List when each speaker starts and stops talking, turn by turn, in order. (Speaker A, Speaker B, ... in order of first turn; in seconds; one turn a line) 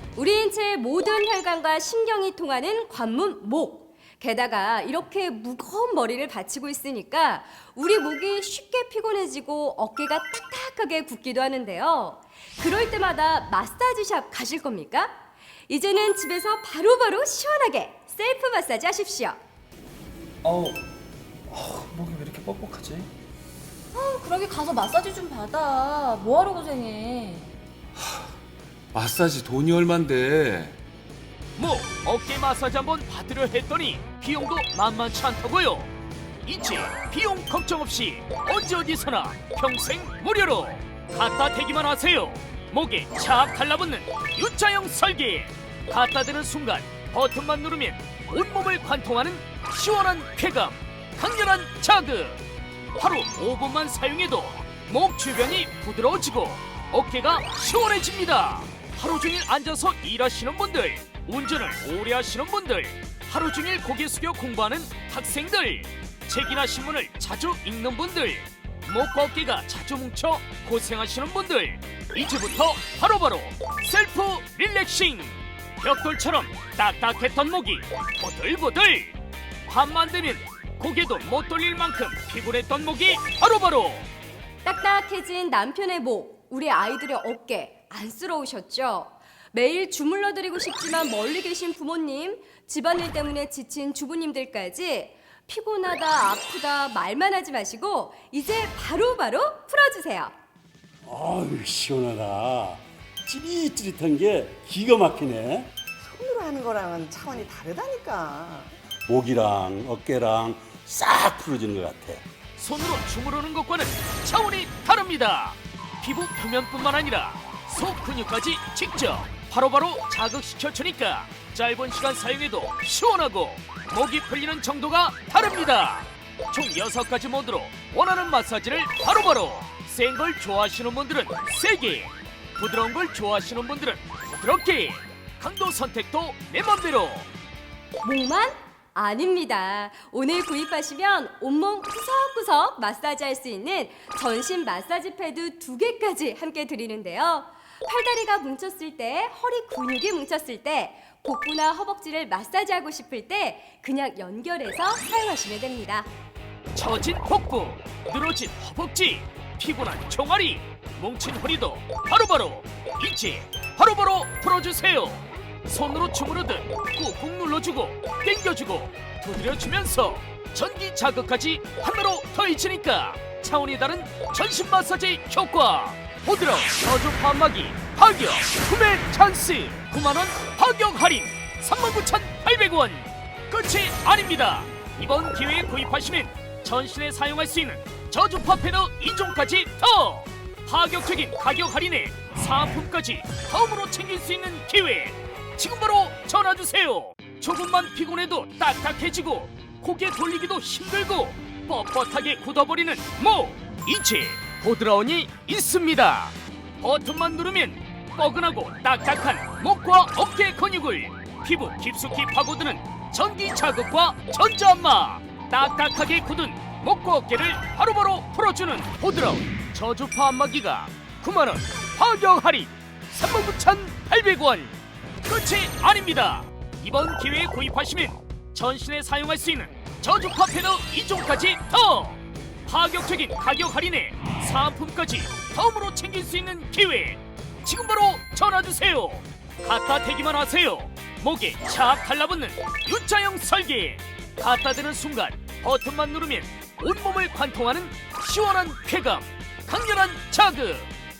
Speaker A: 0.1-15.1
Speaker A: 15.7-19.4
Speaker B: 20.4-20.8
Speaker B: 21.5-23.1
Speaker C: 23.9-27.5
Speaker D: 28.0-28.2
Speaker D: 28.9-30.8
Speaker E: 31.6-35.9
Speaker E: 36.4-52.4
Speaker E: 53.0-84.1
Speaker A: 84.6-100.3
Speaker F: 101.0-105.7
Speaker G: 106.0-108.7
Speaker F: 109.0-112.2
Speaker E: 112.6-137.2
Speaker A: 138.0-156.1
Speaker E: 156.7-250.9